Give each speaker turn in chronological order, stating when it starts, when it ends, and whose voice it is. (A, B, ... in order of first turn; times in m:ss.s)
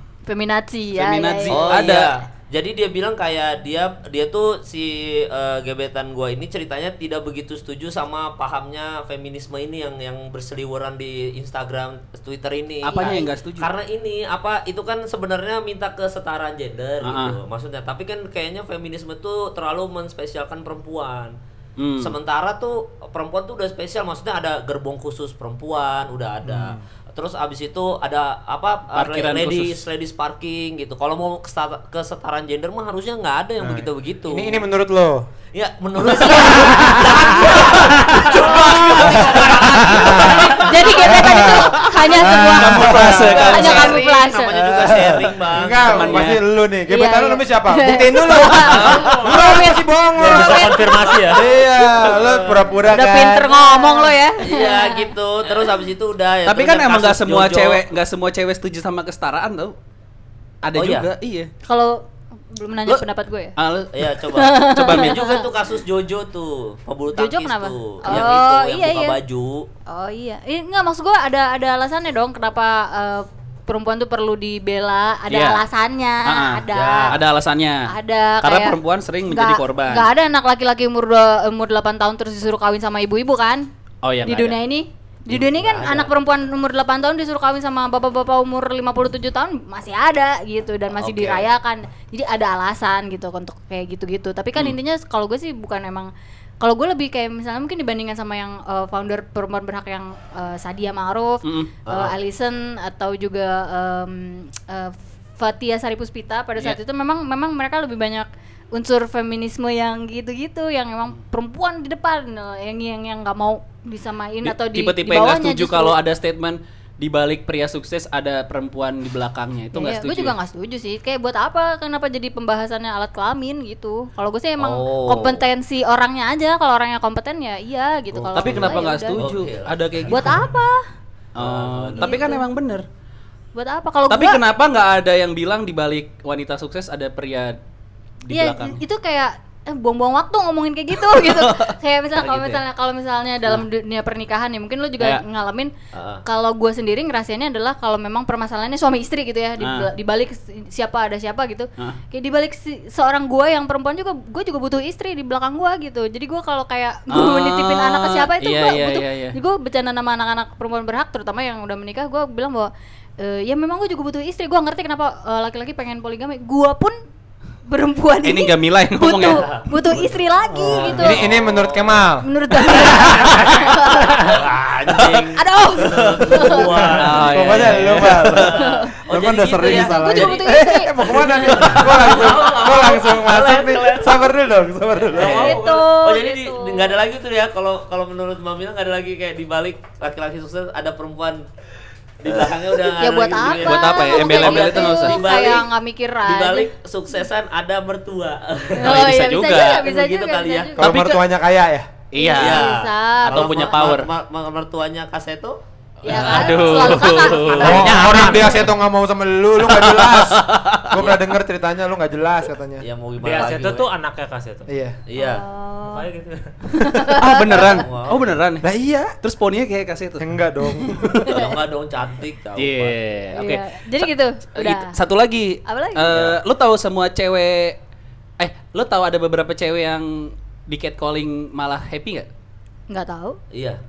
0:00.2-0:01.8 A
0:00.9-0:02.1 B
0:01.5-0:21.4 C
0:12.8-0:13.3 A
0:12.9-0:13.7 B
0:17.0-0:17.4 B
0:21.8-0:22.1 B
0:22.0-0:34.6 C
0:28.9-0:29.8 B
0:33.6-0:35.2 D
0:35.5-0:41.1 C
0:36.2-0:44.0 D
0:38.6-0:40.2 B
0:39.5-0:40.7 E
0:40.5-0:44.6 A
0:42.2-0:44.0 B
0:43.4-0:46.2 C
0:44.5-0:54.1 D
0:45.8-0:46.4 B
0:46.9-0:51.4 A
0:48.5-0:49.1 B
0:48.8-0:49.6 E
0:50.2-0:51.4 E
0:51.7-0:52.8 C
0:52.9-0:55.1 A
0:54.4-0:57.8 C
0:56.4-0:59.8 B
1:00.6-1:01.5 B
1:00.7-1:01.1 C
1:01.6-1:03.5 A
1:03.6-1:04.0 B
1:03.9-1:09.7 C
1:04.3-1:05.5 A
1:04.6-1:05.2 B
1:07.1-1:09.2 A
1:08.1-1:08.3 B
1:09.9-1:17.2 A
1:15.3-1:15.6 B
1:16.2-1:20.1 B
1:16.7-1:17.2 C
1:17.9-1:23.6 A
1:24.0-1:24.6 B
1:24.2-1:36.1 A
1:25.3-1:26.1 C
1:31.0-1:31.4 C
1:36.6-1:56.0 A
1:41.4-1:41.7 B
1:41.8-1:42.1 C
1:54.4-2:00.4 B
1:59.7-2:09.3 A
2:04.6-2:05.4 C
2:08.2-2:10.5 C
2:08.3-2:10.4 B
2:10.1-2:10.8 A
2:11.3-2:12.8 B
2:11.4-2:12.2 C
2:12.0-2:12.5 A
2:13.5-2:14.4 A
2:14.1-2:17.6 B
2:18.2-2:18.8 B
2:18.3-2:25.7 A
2:21.1-2:21.8 B
2:22.2-2:22.6 C
2:25.9-2:26.2 C
2:26.2-2:47.0 A
2:29.6-2:29.9 B
2:37.1-2:39.4 B
2:47.7-2:51.2 A
2:48.2-2:49.4 B
2:49.2-2:49.9 C
2:50.5-2:52.2 D
2:50.5-2:52.1 C
2:52.2-2:54.4 A
2:52.8-2:53.6 D
2:53.0-3:00.5 C
2:55.3-2:56.9 A
2:56.6-3:05.6 D
2:56.9-2:58.5 B
2:58.5-2:59.0 A
2:59.6-3:01.8 A
3:01.2-3:04.3 C
3:05.1-3:11.4 C
3:05.2-3:06.9 A
3:12.2-3:15.7 C
3:12.9-3:16.7 A
3:13.4-3:15.2 B
3:16.2-3:19.0 C
3:18.8-3:21.0 A
3:18.8-3:19.8 B
3:19.7-3:20.7 C
3:20.8-3:21.9 D
3:20.8-3:21.2 B
3:22.1-3:22.7 B
3:22.2-3:23.8 A
3:22.4-3:25.6 C
3:23.2-3:24.1 B
3:26.0-3:27.8 A
3:26.0-3:28.5 B
3:26.2-3:28.2 C
3:27.5-3:28.7 E
3:27.6-3:32.8 D
3:29.6-3:31.2 B
3:32.8-3:33.9 C
3:33.2-3:34.6 E
3:34.7-3:35.0 D
3:35.1-3:35.4 C
3:35.2-3:36.1 A
3:35.8-3:36.5 E
3:36.7-3:37.8 A
3:37.0-3:38.7 B
3:37.6-3:38.3 C
3:38.6-3:39.2 D
3:39.2-3:40.3 B
3:40.2-3:41.4 D
3:41.2-3:43.0 C
3:41.3-3:41.6 A
3:42.6-3:47.8 B
3:43.3-3:45.0 A
3:45.6-3:46.1 A
3:46.1-3:46.4 C
3:48.4-3:52.3 B
3:52.9-3:53.4 A
3:53.5-3:53.8 C